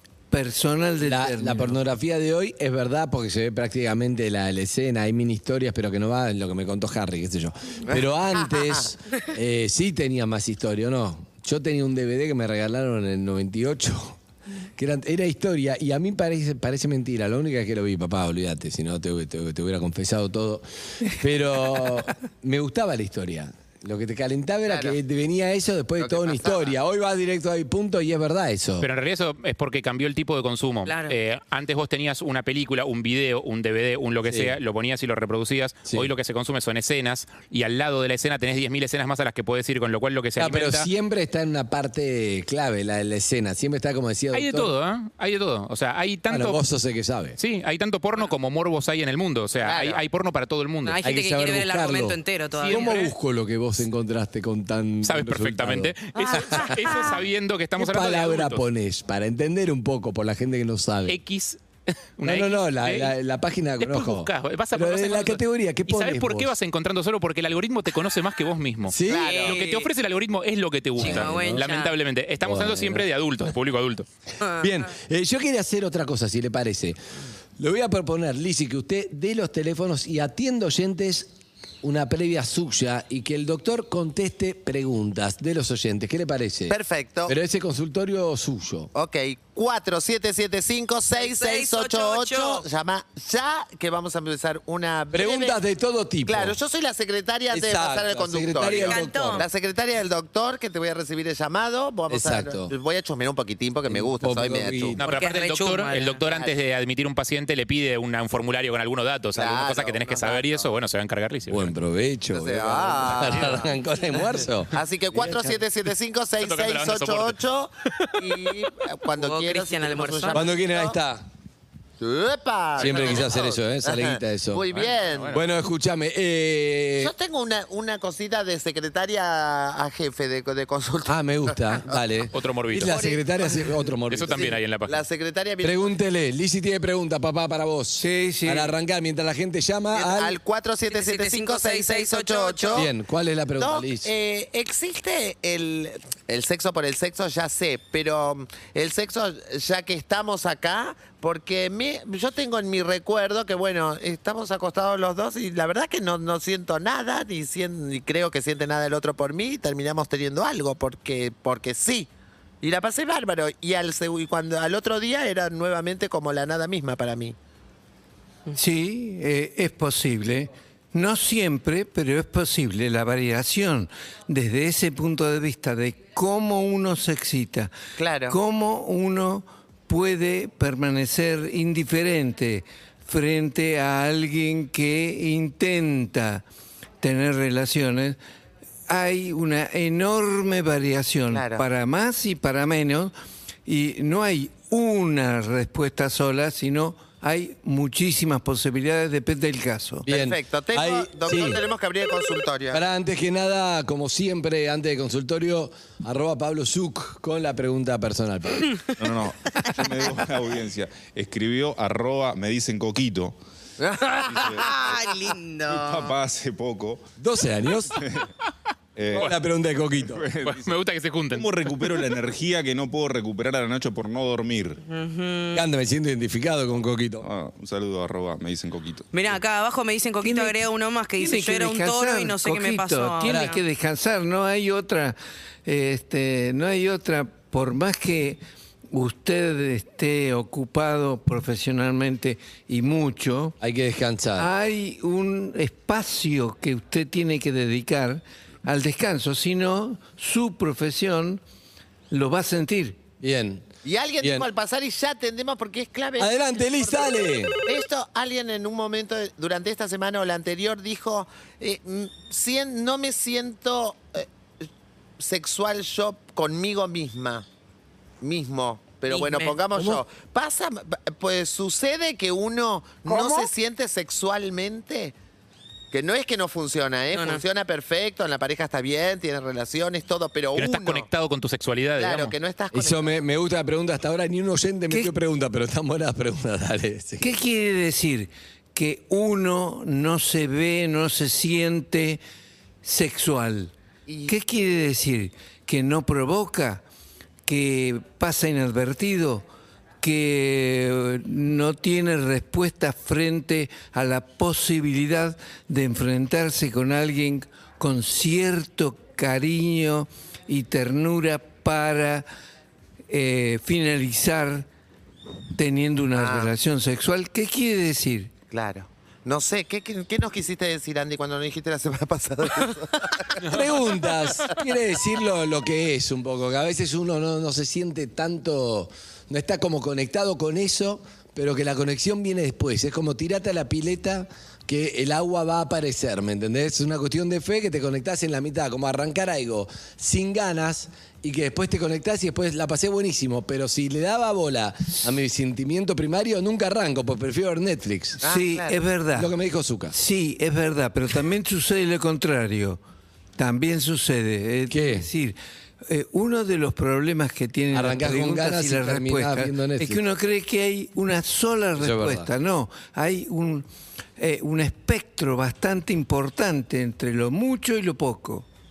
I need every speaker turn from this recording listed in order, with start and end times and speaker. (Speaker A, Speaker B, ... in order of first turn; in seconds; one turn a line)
Speaker A: 0.3-1.8
Speaker B: 1.0-14.2
Speaker C: 7.9-8.8
Speaker B: 14.8-28.9
Speaker C: 24.7-25.0
Speaker C: 26.0-26.8
Speaker D: 28.8-40.9
Speaker E: 30.8-31.2
Speaker B: 34.2-34.6
Speaker B: 40.4-44.7
Speaker D: 44.3-46.6
Speaker B: 46.3-47.4
Speaker D: 47.4-51.0
Speaker C: 49.6-50.0
Speaker E: 50.8-53.0
Speaker B: 51.0-56.8
Speaker D: 52.6-53.1
Speaker D: 55.0-58.6
Speaker E: 56.1-57.2
Speaker B: 57.8-61.2
Speaker D: 61.1-61.6
Speaker D: 62.2-63.1
Speaker B: 62.2-66.5
Speaker D: 63.8-74.1
Speaker B: 68.9-69.3
Speaker C: 69.1-69.6
Speaker E: 69.1-69.9
Speaker B: 71.0-71.6
Speaker E: 71.0-71.9
Speaker B: 72.4-73.1
Speaker E: 74.4-74.7
Speaker B: 74.5-77.0
Speaker B: 77.6-81.3
Speaker B: 81.8-88.9
Speaker C: 86.7-87.3
Speaker C: 88.9-95.6
Speaker E: 91.1-92.6
Speaker B: 95.1-96.6
Speaker C: 96.2-105.0
Speaker B: 97.5-99.5
Speaker E: 98.6-99.5
Speaker B: 102.1-102.7
Speaker B: 103.9-105.1
Speaker D: 105.0-111.7
Speaker E: 105.0-106.2
Speaker C: 106.3-106.5
Speaker C: 109.3-110.7
Speaker B: 111.5-115.5
Speaker C: 112.3-113.7
Speaker D: 113.1-113.6
Speaker C: 114.7-121.0
Speaker D: 116.4-118.1
Speaker E: 119.2-120.5
Speaker B: 120.3-121.2
Speaker C: 122.0-125.4
Speaker B: 122.8-124.6
Speaker D: 122.8-123.2
Speaker D: 124.7-125.4
Speaker B: 125.3-127.1
Speaker C: 127.0-132.0
Speaker B: 131.1-134.6
Speaker D: 132.3-132.9
Speaker C: 132.8-133.7
Speaker D: 134.1-135.0
Speaker C: 134.3-135.9
Speaker B: 135.6-140.4
Speaker A: 138.0-138.7
Speaker C: 139.9-142.9
Speaker E: 140.9-142.9
Speaker B: 142.7-144.1
Speaker C: 143.6-162.1
Speaker C: 162.6-167.3
Speaker A: 168.5-177.7
Speaker C: 178.0-178.3
Speaker A: 178.3-186.4
Speaker A: 187.0-188.2
Speaker A: 188.9-193.1
Speaker C: 191.3-191.6
Speaker A: 193.7-200.1
Speaker B: 200.1-201.6
Speaker C: 200.1-202.8
Speaker B: 202.7-208.8
Speaker F: 209.0-213.4
Speaker C: 213.8-214.7
Speaker F: 214.2-215.0
Speaker E: 214.6-215.9
Speaker F: 215.7-217.1
Speaker B: 217.2-218.0
Speaker F: 217.9-218.3
Speaker F: 218.9-219.4
Speaker B: 219.2-220.2
Speaker F: 220.0-220.7
Speaker D: 220.4-221.9
Speaker F: 221.3-224.8
Speaker E: 224.8-225.7
Speaker B: 225.5-227.3
Speaker F: 227.2-229.4
Speaker E: 229.1-233.6
Speaker A: 230.2-230.6
Speaker A: 231.2-243.6
Speaker B: 233.2-233.6
Speaker B: 243.6-244.5
Speaker A: 244.4-251.4
Speaker A: 252.1-253.0
Speaker B: 253.2-253.7
Speaker C: 253.8-264.3
Speaker B: 254.2-254.5
Speaker B: 256.2-257.6
Speaker C: 265.2-267.4
Speaker C: 268.2-275.1
Speaker E: 269.1-269.6
Speaker B: 269.7-270.0
Speaker E: 273.1-273.4
Speaker C: 275.9-281.1
Speaker E: 277.1-277.4
Speaker D: 280.6-282.3
Speaker C: 282.0-283.2
Speaker B: 282.7-287.3
Speaker A: 284.9-285.1
Speaker A: 287.2-292.2
Speaker A: 292.8-293.7
Speaker C: 294.1-294.4
Speaker A: 294.3-296.8
Speaker A: 297.4-299.4
Speaker A: 300.0-312.3
Speaker A: 313.1-314.7
Speaker A: 315.5-318.3
Speaker C: 316.2-316.5
Speaker C: 318.5-323.6
Speaker B: 323.4-348.2
Speaker C: 348.2-348.8
Speaker A: 348.2-349.3
Speaker B: 349.1-349.9
Speaker A: 349.9-352.8
Speaker A: 353.4-363.7
Speaker B: 354.7-355.1
Speaker B: 357.7-360.0
Speaker B: 361.8-362.3
Speaker A: 364.2-368.4